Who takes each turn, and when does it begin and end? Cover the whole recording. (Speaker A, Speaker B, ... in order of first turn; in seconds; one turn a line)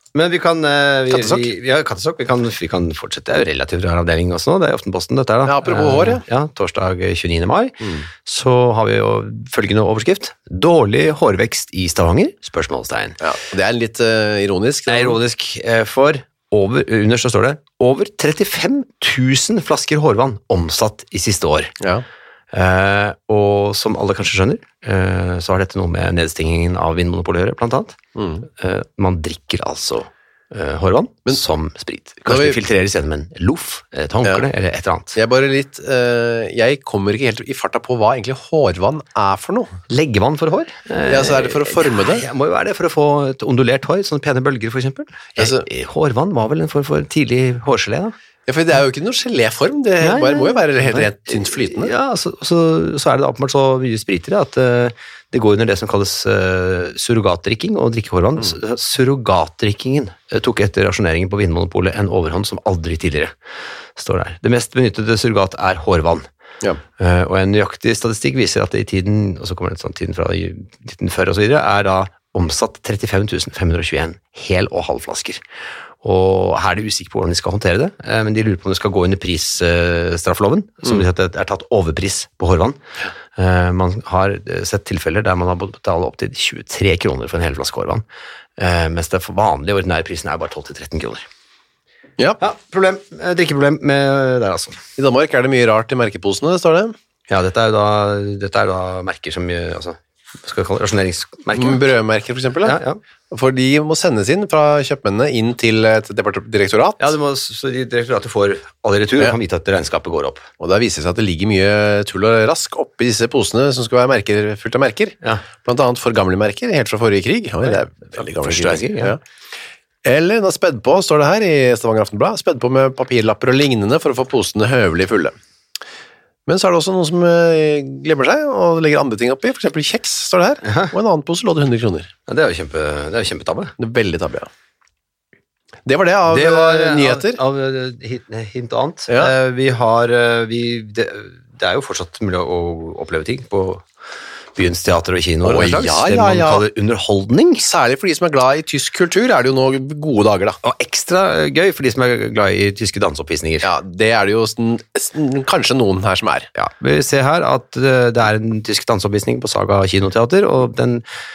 Speaker A: 0.1-13.2
Speaker B: 1.1-1.5
Speaker B: 5.5-6.2
Speaker B: 13.2-15.2
Speaker A: 14.9-21.8
Speaker B: 21.8-22.1
Speaker A: 22.5-28.0
Speaker B: 28.2-28.5
Speaker A: 28.6-35.2
Speaker B: 32.3-32.6
Speaker B: 35.1-39.7
Speaker A: 39.9-48.1
Speaker B: 41.1-42.3
Speaker B: 45.4-45.7
Speaker B: 48.5-51.9
Speaker A: 50.0-63.3
Speaker A: 64.0-66.3
Speaker A: 67.0-75.4
Speaker A: 76.0-82.8
Speaker A: 83.4-88.0
Speaker A: 88.6-91.3
Speaker A: 92.4-94.8
Speaker B: 95.0-96.9
Speaker A: 97.3-101.8
Speaker B: 101.5-102.8
Speaker A: 102.6-103.0
Speaker B: 103.3-107.1
Speaker A: 107.0-110.5
Speaker B: 110.6-119.2
Speaker A: 117.7-119.2
Speaker B: 120.0-125.3
Speaker B: 126.5-132.1
Speaker A: 130.6-130.9
Speaker A: 132.3-133.7
Speaker B: 133.8-134.5
Speaker B: 135.9-137.4
Speaker A: 136.3-143.9
Speaker B: 139.1-139.3
Speaker A: 144.6-147.7
Speaker B: 145.4-146.7
Speaker B: 147.6-150.6
Speaker A: 150.6-153.7
Speaker B: 153.6-156.5
Speaker A: 156.6-161.0